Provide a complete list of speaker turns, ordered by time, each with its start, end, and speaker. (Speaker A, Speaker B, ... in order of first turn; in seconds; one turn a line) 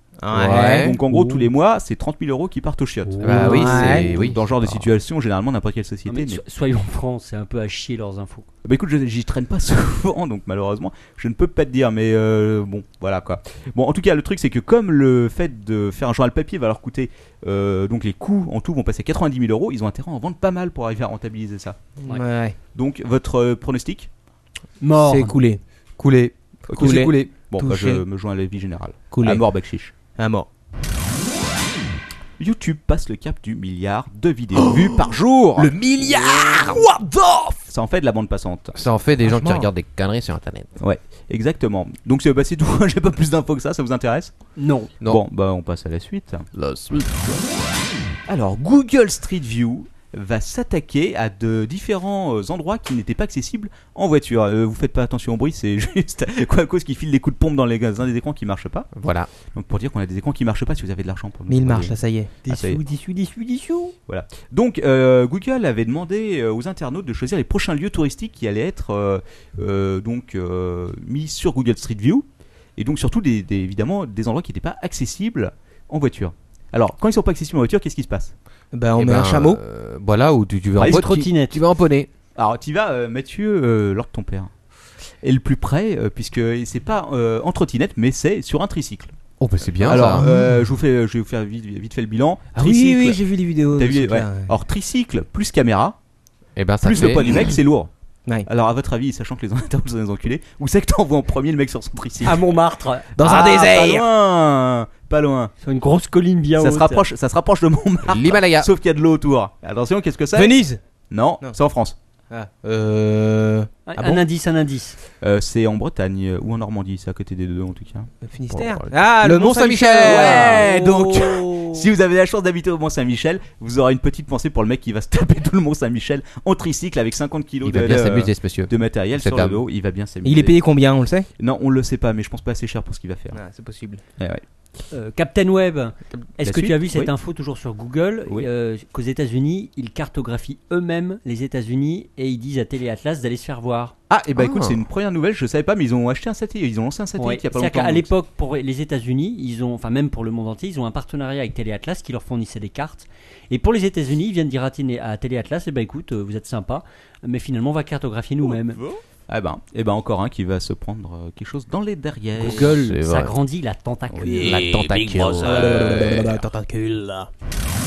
Speaker A: 0.2-1.5
Speaker B: 0.3-1.0
Speaker C: 0.5-6.4
Speaker D: 3.1-3.7
Speaker B: 3.2-4.9
Speaker A: 3.2-4.1
Speaker D: 6.1-8.5
Speaker C: 8.6-21.8
Speaker A: 22.0-22.6
Speaker C: 22.7-24.1
Speaker D: 24.8-25.4
Speaker A: 25.0-25.6
Speaker B: 26.0-27.3
Speaker C: 26.7-29.9
Speaker A: 26.7-28.0
Speaker A: 29.1-29.4
Speaker A: 30.1-30.5
Speaker C: 32.4-35.7
Speaker B: 34.6-34.9
Speaker B: 35.6-37.6
Speaker C: 37.6-38.7
Speaker B: 38.7-40.7
Speaker A: 39.2-39.7
Speaker C: 40.8-44.3
Speaker D: 44.6-44.9
Speaker C: 45.0-46.5
Speaker B: 46.5-47.4
Speaker C: 48.3-58.9
Speaker B: 59.0-59.3
Speaker C: 59.5-61.9
Speaker A: 61.5-62.4
Speaker D: 62.4-63.9
Speaker C: 62.5-62.8
Speaker C: 64.1-72.2
Speaker C: 72.8-78.3
Speaker A: 78.7-79.6
Speaker B: 78.9-82.1
Speaker C: 80.8-81.1
Speaker D: 80.8-81.6
Speaker C: 82.3-84.5
Speaker C: 85.2-89.1
Speaker B: 89.4-90.3
Speaker C: 89.8-93.2
Speaker A: 90.1-90.6
Speaker A: 92.5-94.5
Speaker C: 93.7-96.0
Speaker B: 96.5-97.5
Speaker C: 96.8-97.9
Speaker C: 98.5-102.4
Speaker D: 102.2-103.1
Speaker A: 103.2-104.0
Speaker C: 103.2-105.5
Speaker D: 105.6-107.0
Speaker C: 106.6-110.6
Speaker B: 108.0-108.7
Speaker A: 110.3-110.8
Speaker C: 111.1-112.0
Speaker A: 112.3-114.2
Speaker D: 113.9-115.0
Speaker C: 115.2-118.1
Speaker A: 118.2-121.9
Speaker B: 118.5-120.7
Speaker C: 120.0-130.6
Speaker B: 127.6-129.6
Speaker A: 130.2-131.3
Speaker C: 131.4-133.4
Speaker A: 133.3-134.0
Speaker D: 134.9-143.9
Speaker C: 136.4-137.1
Speaker C: 144.1-148.1
Speaker B: 144.4-144.8
Speaker D: 147.2-158.8
Speaker C: 158.8-162.9
Speaker B: 162.4-163.3
Speaker D: 162.9-164.6
Speaker C: 164.1-164.6
Speaker B: 164.2-166.4
Speaker A: 164.3-167.3
Speaker C: 165.4-165.8